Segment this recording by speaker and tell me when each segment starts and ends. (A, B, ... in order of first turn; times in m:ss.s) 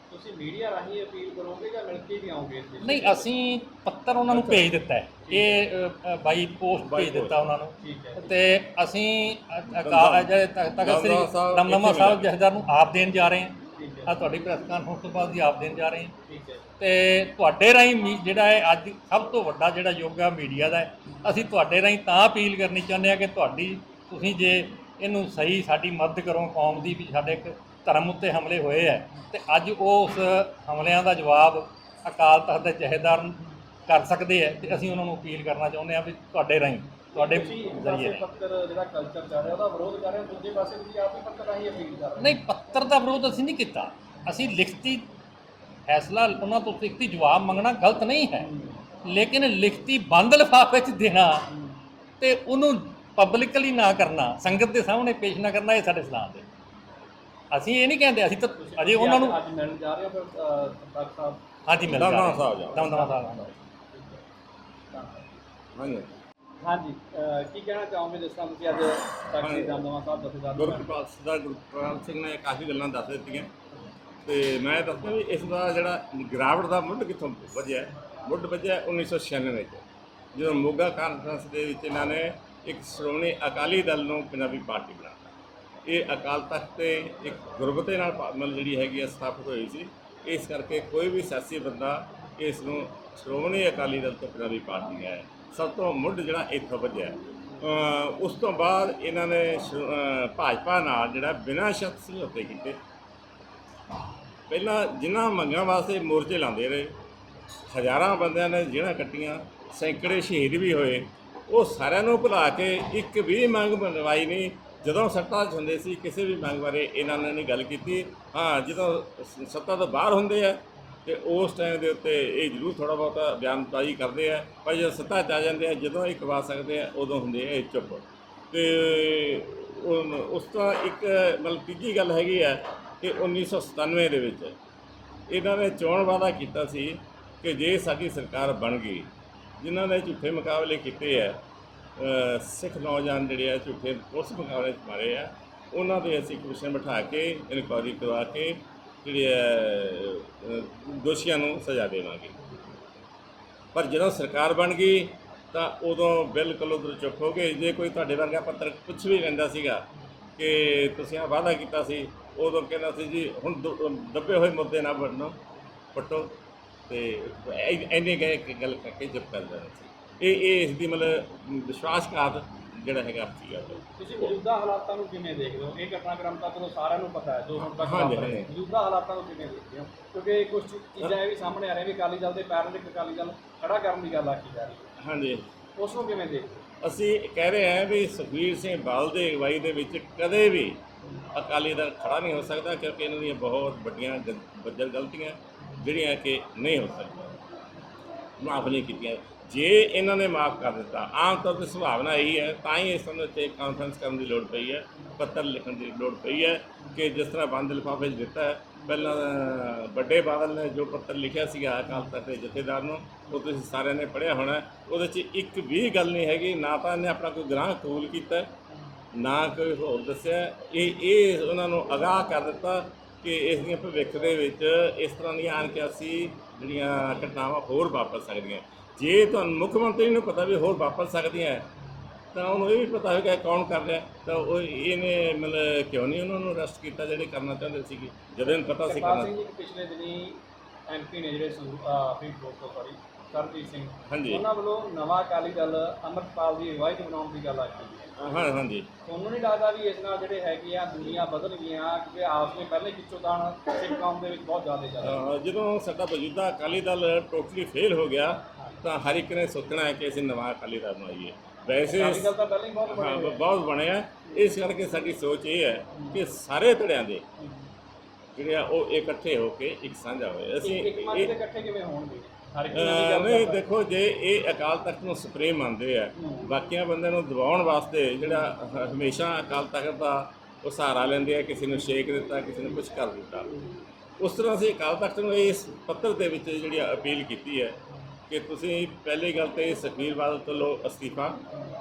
0:00.1-0:03.2 A
0:02.8-0:16.1 B
0:04.3-0:04.7 C
0:05.3-0:05.6 A
0:06.8-0:07.4 C
0:07.8-0:08.4 A
0:09.8-0:12.3 C
0:13.7-0:14.3 A
0:16.3-0:16.6 A
0:16.8-0:38.2 B
0:37.1-0:42.4 A
0:42.2-0:45.1 B
0:45.9-0:48.5 B
0:48.5-0:48.8 A
0:49.0-0:51.5 B
0:52.2-0:56.4 B
0:57.5-0:59.4 B
0:58.6-1:01.4 A
1:01.6-1:03.5 B
1:01.9-1:02.9 C
1:02.8-1:04.2 A
1:04.9-1:05.3 A
1:05.7-1:06.2 C
1:06.6-1:10.9 A
1:09.4-1:09.8 C
1:10.6-1:13.5 C
1:14.2-1:19.8 C
1:20.3-1:25.3 C
1:25.8-1:42.8 C
1:44.5-1:47.0 C
1:47.7-2:14.6 C
2:15.3-2:21.4 C
2:22.0-2:32.3 C
2:33.7-2:39.8 C
2:40.4-2:45.4 C
2:45.9-2:54.3 C
2:53.9-3:04.9 A
2:57.6-2:58.5 C
3:05.0-3:05.5 C
3:05.8-3:06.6 A
3:06.8-3:10.8 C
3:11.3-3:17.4 C
3:18.4-3:38.5 C
3:39.1-3:51.7 C
3:52.3-3:59.3 C
3:58.6-4:08.1 A
4:04.1-4:04.4 C
4:08.2-4:08.9 C
4:09.0-4:15.2 A
4:15.0-4:22.3 C
4:21.8-4:23.4 A
4:22.9-4:27.2 C
4:25.9-4:26.2 A
4:27.4-4:27.6 A
4:28.4-4:31.3 C
4:30.6-4:33.6 A
4:32.7-4:43.5 C
4:36.2-4:36.5 A
4:44.2-4:47.8 C
4:48.3-4:51.4 C